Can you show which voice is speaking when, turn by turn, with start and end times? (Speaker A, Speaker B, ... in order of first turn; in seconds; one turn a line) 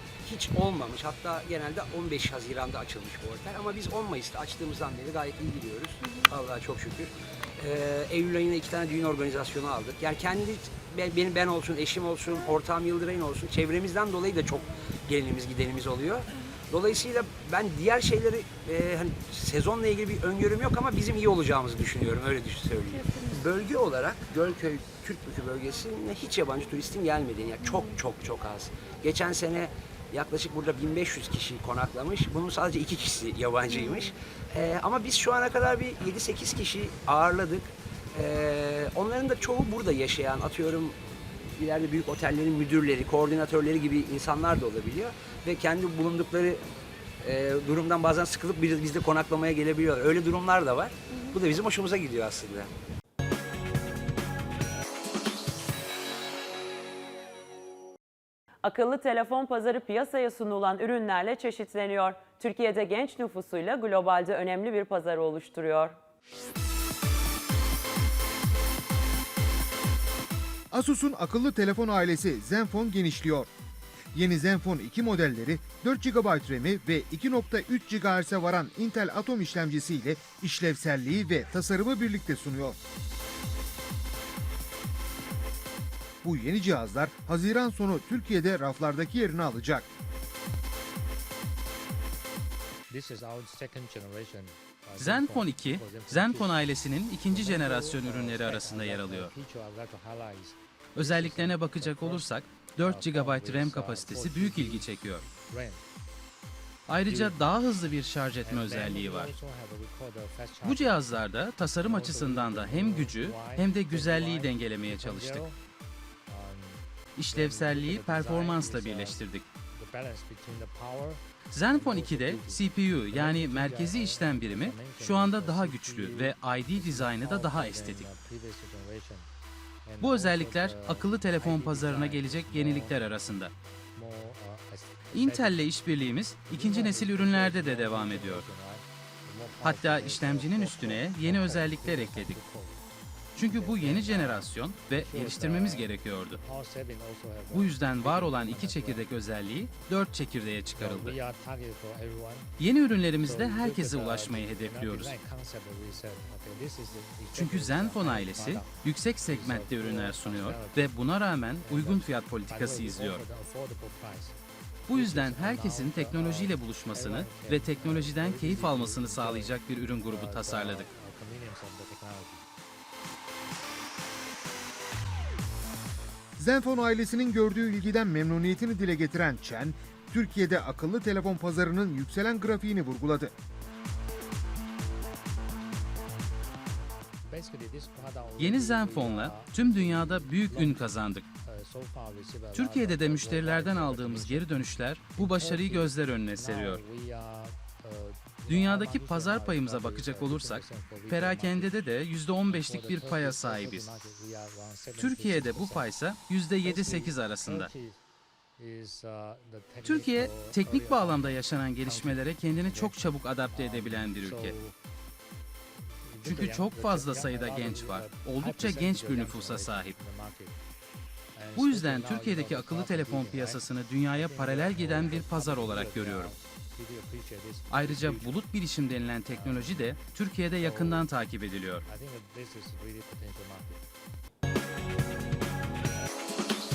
Speaker A: 0.2-46.6
Speaker A: 47.2-52.7
Speaker B: 58.6-65.9
Speaker C: 70.7-73.5
Speaker C: 74.1-82.8
Speaker C: 86.2-89.9
Speaker D: 92.9-96.6
Speaker E: 95.0-99.3
Speaker D: 97.3-102.2
Speaker E: 101.0-105.2
Speaker D: 102.8-104.9
Speaker D: 105.4-105.8
Speaker E: 106.9-109.3
Speaker D: 107.0-107.4
Speaker D: 108.4-111.1
Speaker E: 110.6-115.4
Speaker D: 111.8-115.6
Speaker D: 116.3-119.2
Speaker E: 117.2-119.4
Speaker D: 119.7-129.3
Speaker E: 121.5-128.1
Speaker D: 129.8-133.0
Speaker E: 130.0-133.5
Speaker D: 133.9-135.7
Speaker E: 135.1-138.4
Speaker D: 136.4-142.8
Speaker E: 139.6-142.4
Speaker E: 143.3-146.4
Speaker D: 143.5-145.9
Speaker D: 146.4-149.1
Speaker E: 147.5-151.2
Speaker D: 150.7-152.5
Speaker E: 152.6-155.1
Speaker D: 153.2-160.9
Speaker E: 157.3-163.2
Speaker D: 161.6-164.3
Speaker E: 164.9-170.9
Speaker D: 164.9-169.6
Speaker D: 170.1-172.5
Speaker C: 176.4-183.3
Speaker D: 187.2-190.9
Speaker E: 188.4-191.2
Speaker D: 191.4-201.8
Speaker E: 192.5-196.8
Speaker E: 198.5-203.9
Speaker D: 202.5-205.9
Speaker E: 205.0-207.7
Speaker D: 206.6-208.0
Speaker D: 208.6-214.8
Speaker E: 209.8-214.5
Speaker D: 216.0-220.6
Speaker E: 216.2-219.9
Speaker D: 221.3-228.3
Speaker E: 221.6-226.3
Speaker E: 227.7-231.8
Speaker D: 229.3-229.9
Speaker D: 230.6-231.1
Speaker D: 231.8-233.8